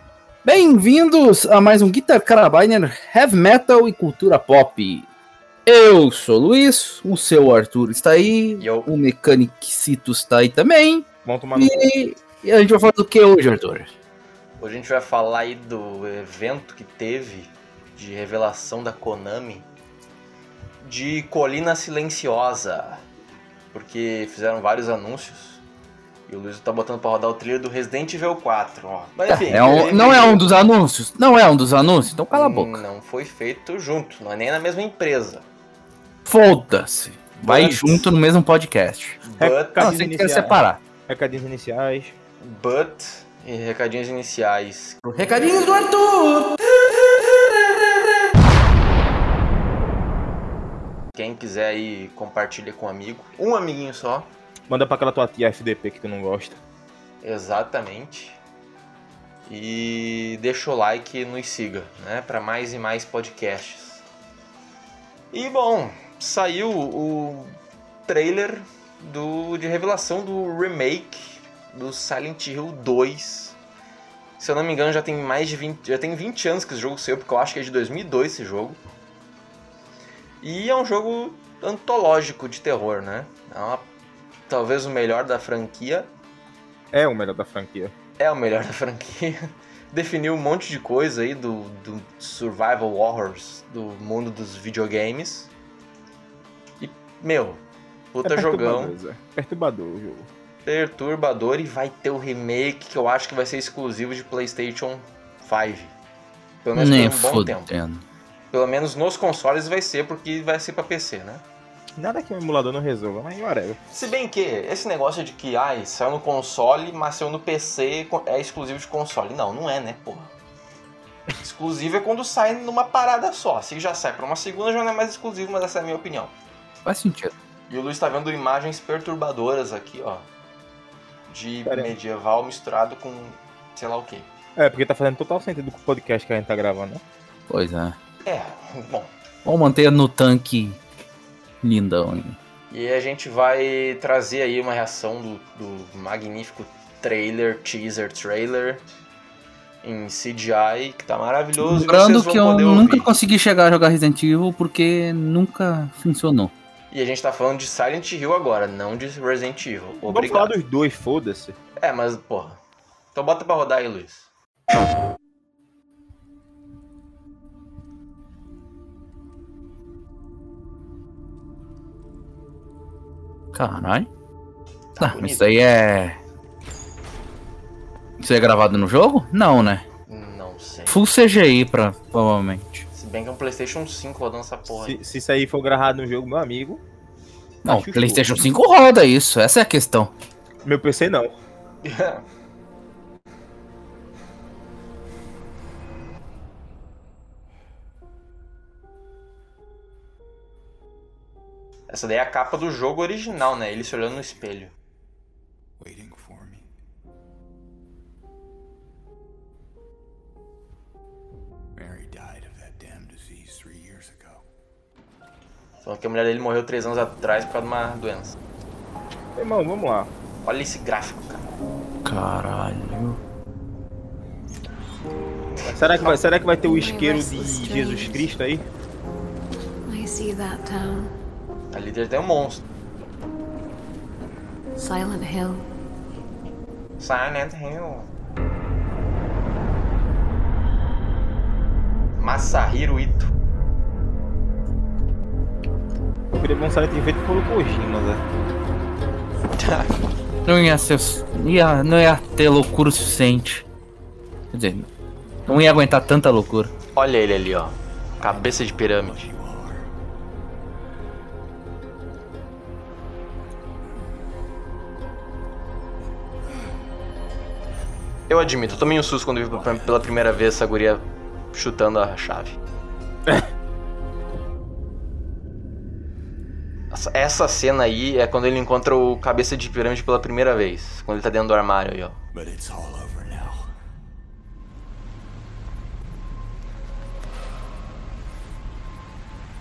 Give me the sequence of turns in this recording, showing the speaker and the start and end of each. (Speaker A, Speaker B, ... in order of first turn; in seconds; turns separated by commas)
Speaker A: 0.5-5.1, Speaker A: 5.7-13.9, Speaker B: 8.6-8.9, Speaker C: 11.2-11.7, Speaker B: 14.6-19.7, Speaker B: 20.8-23.0, Speaker B: 23.7-25.6, Speaker B: 26.3-30.5, Speaker A: 29.3-32.8, Speaker B: 32.3-35.5, Speaker A: 36.3-39.2, Speaker B: 37.4-38.1, Speaker B: 39.2-40.6, Speaker C: 39.4-42.1, Speaker A: 39.8-40.8, Speaker B: 42.4-45.0, Speaker A: 45.0-46.5, Speaker B: 46.8-48.0, Speaker B: 51.1-54.3, Speaker C: 54.7-56.6, Speaker B: 57.2-58.4, Speaker B: 59.5-64.0, Speaker B: 65.3-67.5, Speaker B: 68.1-73.6, Speaker B: 74.4-78.8, Speaker B: 80.4-83.9, Speaker B: 84.5-86.1, Speaker C: 86.9-87.9, Speaker B: 88.2-89.4, Speaker B: 89.9-95.5, Speaker B: 96.8-97.6, Speaker B: 98.1-99.0, Speaker C: 98.2-100.3, Speaker B: 100.7-105.9, Speaker B: 106.6-107.7, Speaker A: 106.8-108.0, Speaker B: 108.5-111.4, Speaker C: 112.0-113.8, Speaker B: 113.9-120.3, Speaker B: 121.4-126.3, Speaker A: 126.9-127.3, Speaker B: 127.7-130.2, Speaker B: 131.3-134.3, Speaker C: 131.7-131.9, Speaker C: 134.6-137.0, Speaker A: 137.5-137.9, Speaker B: 138.2-139.1, Speaker A: 139.4-140.8, Speaker A: 141.6-142.4, Speaker B: 142.7-148.8, Speaker B: 149.8-153.1, Speaker A: 151.6-156.5, Speaker B: 156.9-160.5, Speaker C: 160.0-161.6, Speaker B: 161.8-162.6, Speaker B: 163.1-164.3, Speaker A: 173.5-174.1, Speaker B: 174.9-175.5, Speaker A: 175.0-176.2, Speaker A: 178.2-179.8, Speaker B: 180.1-181.0, Speaker A: 180.9-182.8, Speaker B: 182.9-185.0, Speaker C: 184.8-186.8, Speaker C: 187.7-188.4, Speaker A: 187.7-190.1, Speaker C: 190.7-191.3, Speaker B: 191.8-192.2, Speaker B: 201.9-204.7, Speaker D: 205.8-206.7, Speaker D: 211.8-214.4, Speaker B: 215.8-218.4, Speaker C: 219.4-220.1, Speaker B: 220.4-221.5, Speaker A: 222.1-223.2, Speaker B: 225.6-226.2, Speaker C: 225.7-228.6, Speaker E: 226.6-228.3, Speaker E: 229.9-231.1, Speaker B: 231.7-232.6, Speaker E: 234.8-235.7, Speaker B: 237.0-238.1, Speaker B: 242.2-243.3, Speaker C: 246.4-248.2, Speaker B: 249.6-249.9, Speaker A: 250.5-253.7, Speaker A: 254.5-254.9, Speaker A: 255.5-256.7, Speaker B: 256.9-259.3, Speaker D: 259.3-259.8, Speaker B: 268.3-272.6, Speaker B: 276.9-282.2, Speaker D: 282.4-283.7